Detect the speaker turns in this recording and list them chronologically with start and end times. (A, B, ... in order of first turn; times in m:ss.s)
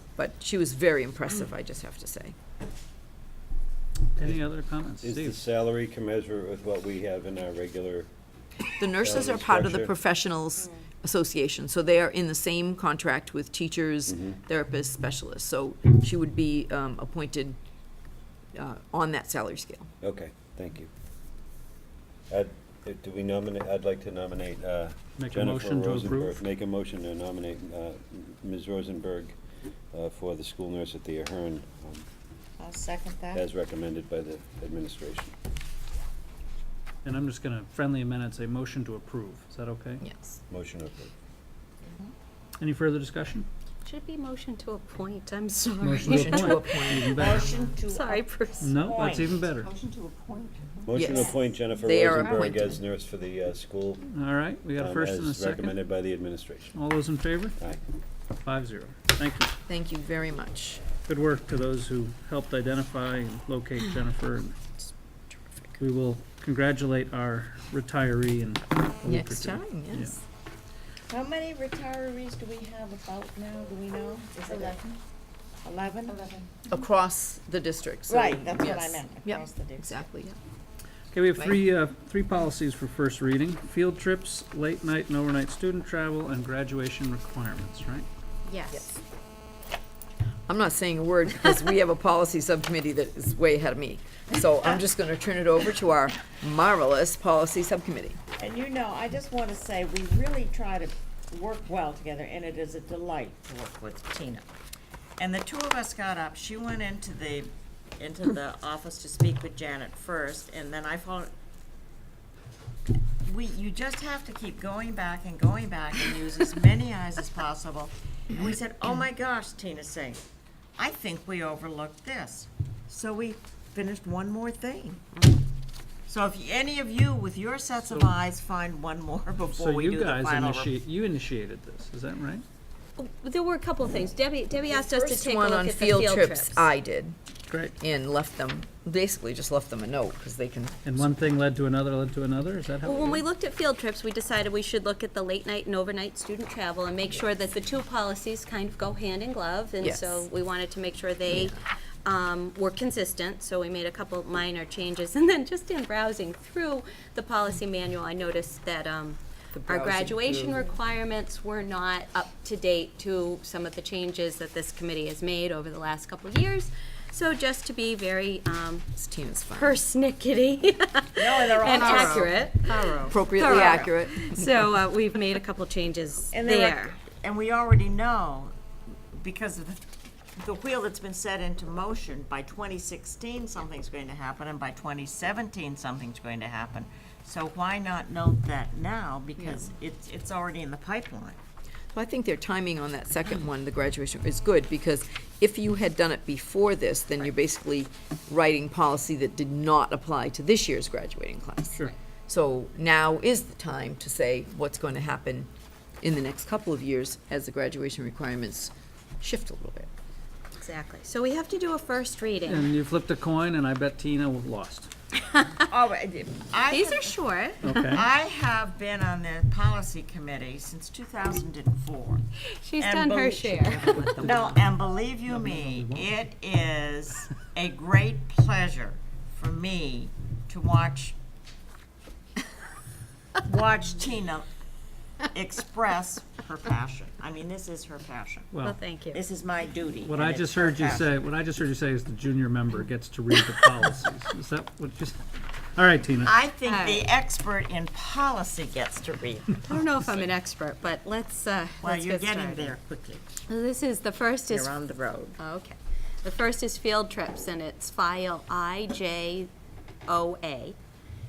0:00.2-0:02.4 A
0:04.2-0:05.4 B
0:05.0-0:08.1 C
0:08.8-0:17.6 A
0:09.0-0:09.9 C
0:14.1-0:14.4 C
0:18.5-0:19.9 A
0:20.0-0:20.9 C
0:22.3-0:29.4 C
0:25.2-0:26.4 B
0:29.9-0:32.1 C
0:32.6-0:33.5 D
0:33.3-0:35.3 C
0:37.0-0:40.0 B
0:40.0-0:40.4 A
0:40.5-0:41.1 C
0:41.8-0:42.1 D
0:42.6-0:43.5 B
0:43.8-0:46.6 E
0:45.8-0:47.6 B
0:46.0-0:47.7 A
0:47.0-0:51.4 D
0:47.9-0:48.7 E
0:48.6-0:49.7 B
0:50.9-0:54.0 C
0:50.9-0:52.8 A
0:52.0-0:52.3 D
0:54.1-0:55.8 B
0:54.8-0:56.8 C
0:56.7-0:57.6 B
0:58.4-0:59.5 B
0:59.7-1:00.8 A
1:01.1-1:04.6 B
1:05.8-1:10.2 B
1:09.0-1:10.2 A
1:11.1-1:15.0 D
1:15.6-1:16.5 D
1:16.7-1:20.4 A
1:18.1-1:20.0 D
1:21.1-1:28.1 B
1:28.4-1:29.0 E
1:30.5-1:38.2 A
1:38.4-1:44.5 D
1:45.2-1:51.3 D
1:53.2-2:00.2 D
2:00.8-2:05.0 D
2:06.1-2:10.8 D
2:09.5-2:12.4 B
2:13.0-2:16.7 E
2:14.7-2:17.2 A
2:17.5-2:17.7 B
2:17.7-2:21.1 A
2:20.8-2:23.2 B
2:22.8-2:48.9 E
2:29.8-2:30.2 A
2:31.3-2:31.6 A
2:39.5-2:40.7 A
2:49.0-2:49.8 A
2:49.6-2:57.0 E
2:51.2-2:53.7 D
2:51.7-2:52.1 A
2:53.1-2:54.7 A
2:56.3-2:58.5 D
2:59.1-2:59.8 D
3:00.4-3:11.4 D
3:11.9-3:25.5 A
3:26.0-3:29.9 A
3:30.6-3:32.7 E
3:32.5-3:34.9 B
3:35.2-3:35.6 E
3:35.7-3:37.2 D
3:36.7-3:38.0 E
3:37.6-3:38.0 B
3:37.9-3:42.3 D
3:42.4-3:44.4 E
3:42.8-3:51.2 D
3:44.2-3:44.6 B
3:45.3-3:46.1 B
3:53.4-3:54.5 D
3:55.2-3:58.5 D
3:58.5-3:58.8 B
3:58.6-3:59.2 E
3:59.1-4:01.1 D
4:00.0-4:05.2 B
4:05.8-4:06.3 B
4:06.2-4:09.8 D
4:06.6-4:07.1 E
4:09.6-4:12.8 E
4:11.8-4:13.3 D
4:13.5-4:14.7 E
4:14.5-4:15.4 D
4:15.4-4:19.5 E
4:20.1-4:20.8 E